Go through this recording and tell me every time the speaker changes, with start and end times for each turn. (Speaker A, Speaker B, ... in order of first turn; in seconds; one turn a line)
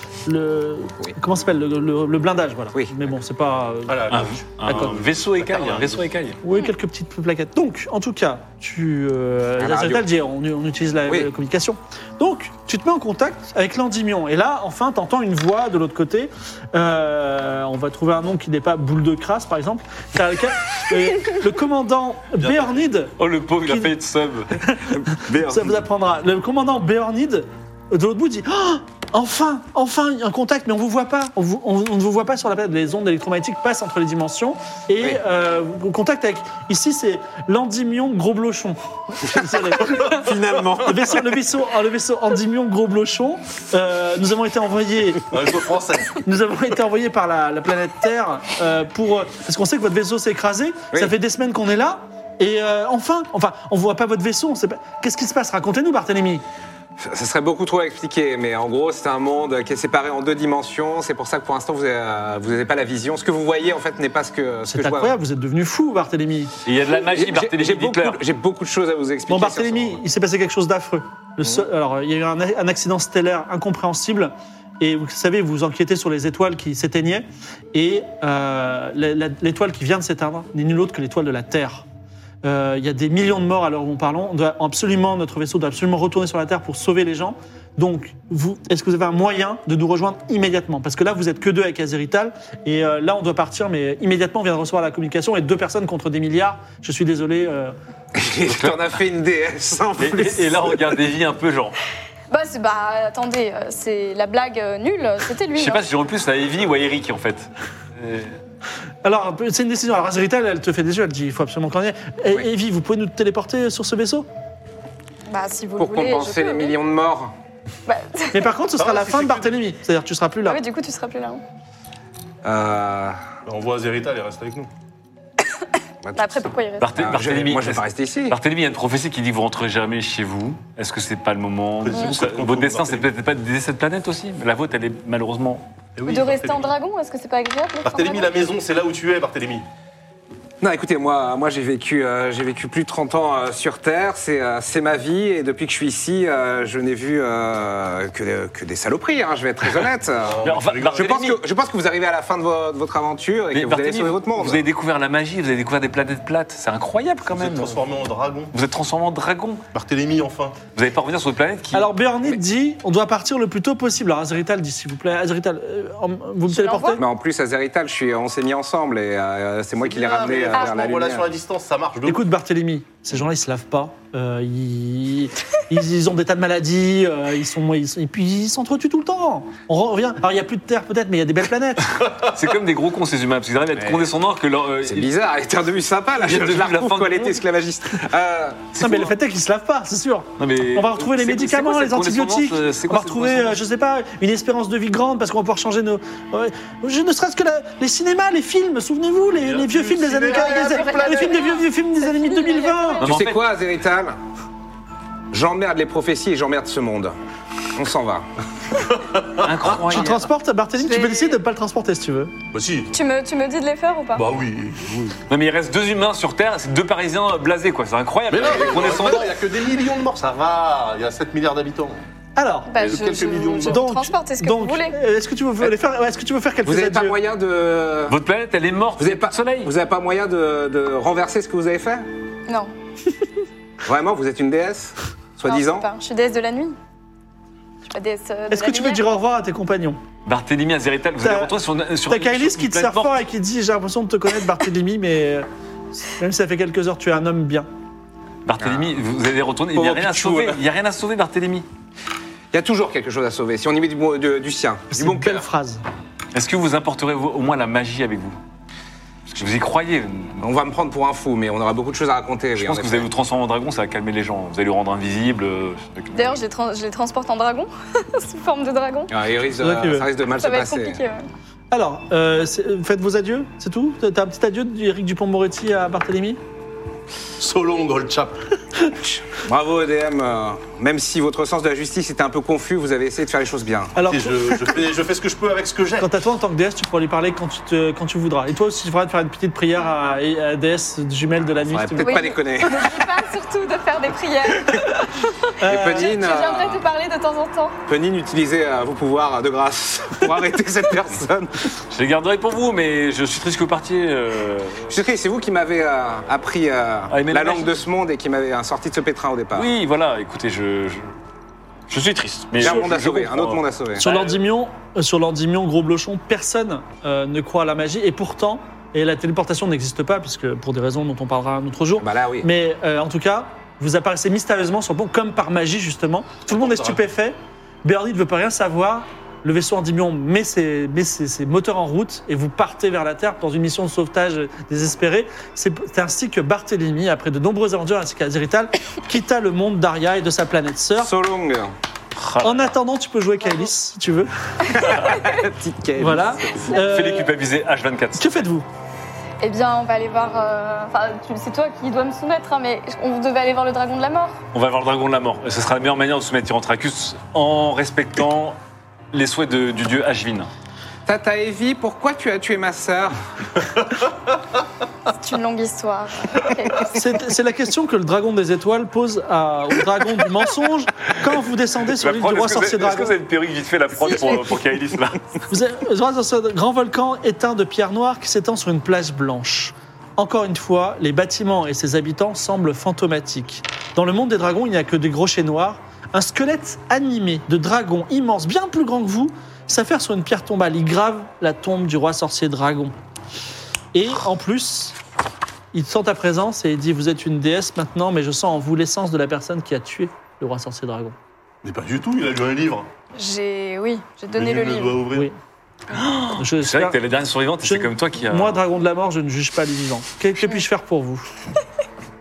Speaker A: 0.2-5.0
Speaker B: 2.7-3.1
Speaker C: 3.9-6.0
Speaker D: 4.1-6.4
Speaker A: 6.4-23.1
Speaker B: 9.6-10.1
Speaker C: 22.4-22.8
Speaker D: 23.2-24.6
Speaker A: 23.6-23.9
Speaker A: 24.6-45.3
Speaker B: 24.9-25.8
Speaker B: 39.3-41.1
Speaker C: 45.3-46.2
Speaker A: 46.2-56.4
Speaker B: 57.0-65.2
Speaker A: 64.7-66.5
Speaker D: 66.6-68.2
Speaker B: 67.0-70.0
Speaker A: 69.3-81.8
Speaker A: 82.4-97.7
Speaker B: 98.1-100.7
Speaker D: 98.5-98.8
Speaker D: 100.0-101.8
Speaker E: 102.3-105.8
Speaker D: 105.5-108.3
Speaker A: 109.0-114.2
Speaker E: 115.3-116.8
Speaker B: 115.8-117.3
Speaker E: 117.9-118.5
Speaker A: 118.3-120.6
Speaker C: 118.8-119.5
Speaker E: 120.4-121.4
Speaker B: 122.4-123.2
Speaker C: 123.4-124.7
Speaker B: 126.0-126.4
Speaker E: 126.1-126.9
Speaker D: 126.8-135.7
Speaker B: 127.0-128.3
Speaker C: 131.8-133.1
Speaker C: 135.9-136.7
Speaker E: 136.1-138.3
Speaker C: 137.8-139.6
Speaker B: 140.6-150.4
Speaker C: 150.2-151.2
Speaker D: 150.4-151.4
Speaker B: 150.9-154.6
Speaker D: 153.5-157.8
Speaker C: 157.3-158.5
Speaker D: 158.5-159.6
Speaker C: 159.7-160.6
Speaker D: 160.7-161.9
Speaker A: 161.7-167.0
Speaker E: 166.5-167.0
Speaker B: 166.9-171.3
Speaker C: 169.8-172.2
Speaker E: 170.5-170.8
Speaker A: 172.0-182.0
Speaker D: 182.3-185.1
Speaker B: 183.8-184.1
Speaker B: 184.8-188.8
Speaker D: 186.2-187.4
Speaker A: 188.8-203.0
Speaker D: 188.8-189.1
Speaker D: 190.4-193.6
Speaker C: 199.4-201.4
Speaker E: 200.3-203.0
Speaker D: 203.0-203.4
Speaker B: 203.0-204.2
Speaker B: 205.3-207.2
Speaker B: 207.7-208.2
Speaker C: 208.8-209.8
Speaker D: 209.4-210.2
Speaker A: 209.9-212.3
Speaker E: 210.8-211.4
Speaker C: 212.5-212.9
Speaker E: 212.9-214.2
Speaker C: 214.1-215.2
Speaker D: 215.3-219.4
Speaker C: 218.3-222.0
Speaker A: 222.3-222.7
Speaker E: 222.7-224.9
Speaker C: 222.8-223.8
Speaker A: 223.7-227.2
Speaker B: 226.6-228.2
Speaker D: 228.1-229.7
Speaker B: 229.0-232.1
Speaker E: 232.5-232.7
Speaker B: 233.8-235.9
Speaker E: 235.4-236.8
Speaker E: 237.9-239.0
Speaker A: 238.5-240.0
Speaker D: 240.2-243.2
Speaker A: 241.2-241.5
Speaker A: 242.1-245.5
Speaker A: 246.0-247.7
Speaker D: 248.4-251.7
Speaker B: 248.6-248.9
Speaker B: 249.7-250.6
Speaker B: 252.5-255.4
Speaker A: 254.9-255.8
Speaker D: 256.3-258.4
Speaker D: 259.3-260.4
Speaker B: 260.4-263.1
Speaker D: 262.6-266.4
Speaker E: 266.1-269.1
Speaker B: 269.1-271.0
Speaker A: 269.6-270.1
Speaker E: 270.4-271.3
Speaker A: 271.7-276.4
Speaker C: 277.4-278.4
Speaker B: 279.0-283.9
Speaker A: 283.9-284.8
Speaker C: 284.0-286.1
Speaker A: 286.0-292.4
Speaker B: 291.7-293.0
Speaker E: 292.0-294.9
Speaker A: 294.7-295.1
Speaker A: 295.6-296.1
Speaker B: 295.6-296.8
Speaker E: 295.8-297.8
Speaker B: 297.9-301.7
Speaker D: 301.9-304.9
Speaker B: 304.9-309.7
Speaker D: 307.1-307.7
Speaker D: 309.5-311.1
Speaker D: 311.9-313.6
Speaker B: 312.6-314.2
Speaker A: 314.0-341.1
Speaker B: 322.0-322.5
Speaker C: 326.5-327.0
Speaker B: 341.0-341.7
Speaker D: 342.1-342.7
Speaker A: 342.4-344.3
Speaker B: 344.7-346.8
Speaker D: 344.8-345.2
Speaker A: 346.0-347.3
Speaker D: 346.7-348.4
Speaker A: 348.2-348.6
Speaker E: 349.4-354.4
Speaker D: 354.5-358.6
Speaker D: 359.1-360.5
Speaker B: 361.1-363.2
Speaker E: 365.1-367.0
Speaker A: 366.9-373.1
Speaker D: 371.9-375.2
Speaker E: 374.0-374.5
Speaker A: 375.5-392.9
Speaker A: 393.9-394.9
Speaker A: 395.7-401.1
Speaker C: 401.6-402.9
Speaker E: 403.1-405.0
Speaker C: 404.3-405.3
Speaker D: 405.9-408.6
Speaker A: 406.4-407.0
Speaker A: 407.6-411.3